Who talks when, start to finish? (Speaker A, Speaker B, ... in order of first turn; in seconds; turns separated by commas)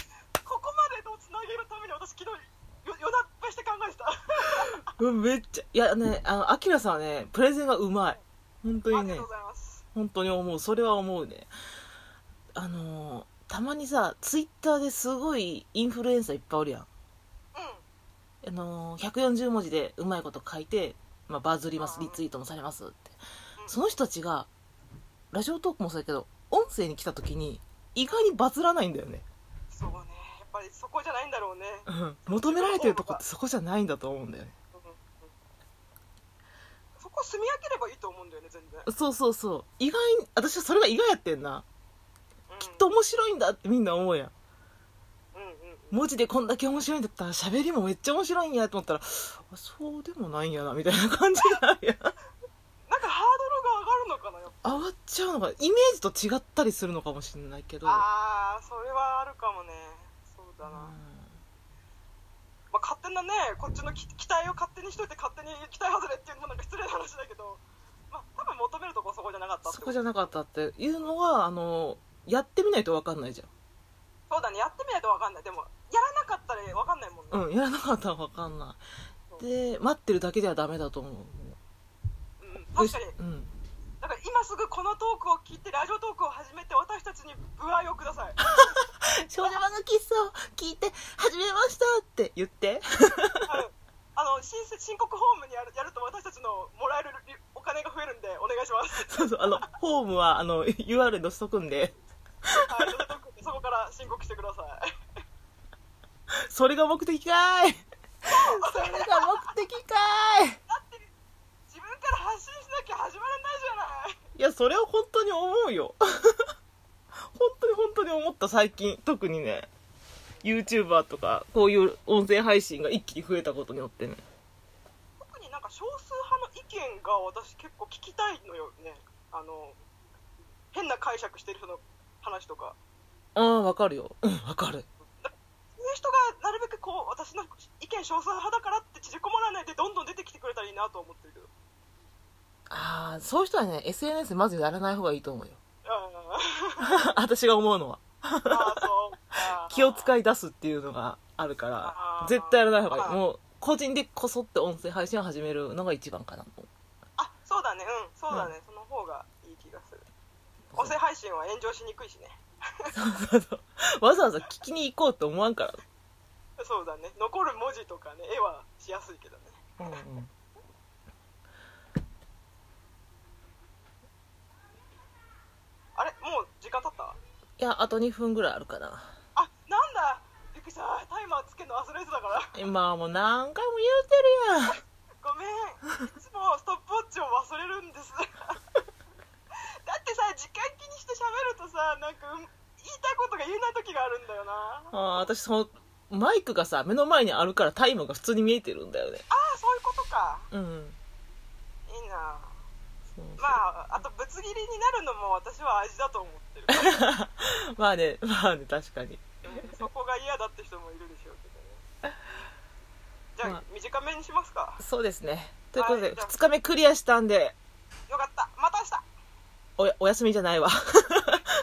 Speaker A: 0.4-4.8, Speaker B: 4.9-9.3, Speaker A: 8.9-9.8, Speaker B: 9.9-11.5, Speaker B: 12.6-16.9, Speaker A: 17.5-17.8, Speaker B: 18.4-23.2, Speaker A: 21.8-22.2, Speaker B: 23.7-24.5, Speaker B: 25.3-29.3, Speaker A: 29.7-33.2, Speaker B: 31.9-34.5, Speaker A: 34.7-35.3, Speaker A: 37.0-38.9, Speaker B: 38.9-41.6, Speaker A: 42.5-42.9, Speaker B: 42.6-44.3, Speaker A: 45.3-46.0, Speaker B: 45.9-52.1, Speaker A: 52.9-54.8, Speaker B: 54.6-58.0, Speaker A: 57.8-60.9, Speaker B: 60.6-61.4, Speaker A: 62.7-70.2, Speaker B: 69.6-73.5, Speaker A: 74.3-77.4, Speaker B: 77.3-78.8, Speaker B: 79.4-81.6, Speaker A: 82.4-83.1, Speaker B: 82.8-83.5, Speaker A: 84.0-88.5, Speaker B: 88.5-93.6, Speaker A: 93.5-99.7, Speaker B: 99.1-101.9, Speaker A: 102.7-104.8, Speaker B: 106.5-110.6, Speaker A: 108.2-109.5, Speaker A: 110.7-111.1, Speaker A: 111.7-114.2, Speaker B: 114.3-116.4, Speaker B: 117.3-119.7, Speaker B: 120.4-124.2, Speaker A: 125.2-129.8, Speaker A: 130.7-132.8, Speaker B: 133.3-134.8, Speaker A: 135.2-141.5, Speaker B: 142.7-145.6, Speaker A: 145.8-146.8, Speaker B: 146.8-148.8, Speaker A: 148.5-150.1, Speaker B: 149.7-156.7, Speaker A: 151.8-153.2, Speaker A: 157.2-160.0, Speaker A: 160.8-162.9, Speaker B: 162.9-165.8, Speaker A: 166.6-170.0, Speaker B: 169.8-170.3, Speaker A: 175.9-177.2, Speaker B: 177.6-179.2, Speaker A: 179.3-182.6, Speaker B: 182.5-184.8, Speaker A: 185.2-188.6, Speaker A: 189.8-195.3, Speaker B: 194.9-199.2, Speaker A: 199.3-200.5, Speaker B: 200.5-201.0, Speaker A: 201.9-202.6, Speaker B: 203.1-203.6, Speaker A: 203.4-207.0, Speaker B: 206.7-209.6, Speaker A: 209.4-211.8, Speaker A: 213.3-214.8, Speaker B: 214.8-217.6, Speaker A: 215.8-216.3, Speaker A: 218.1-219.0, Speaker B: 219.8-221.4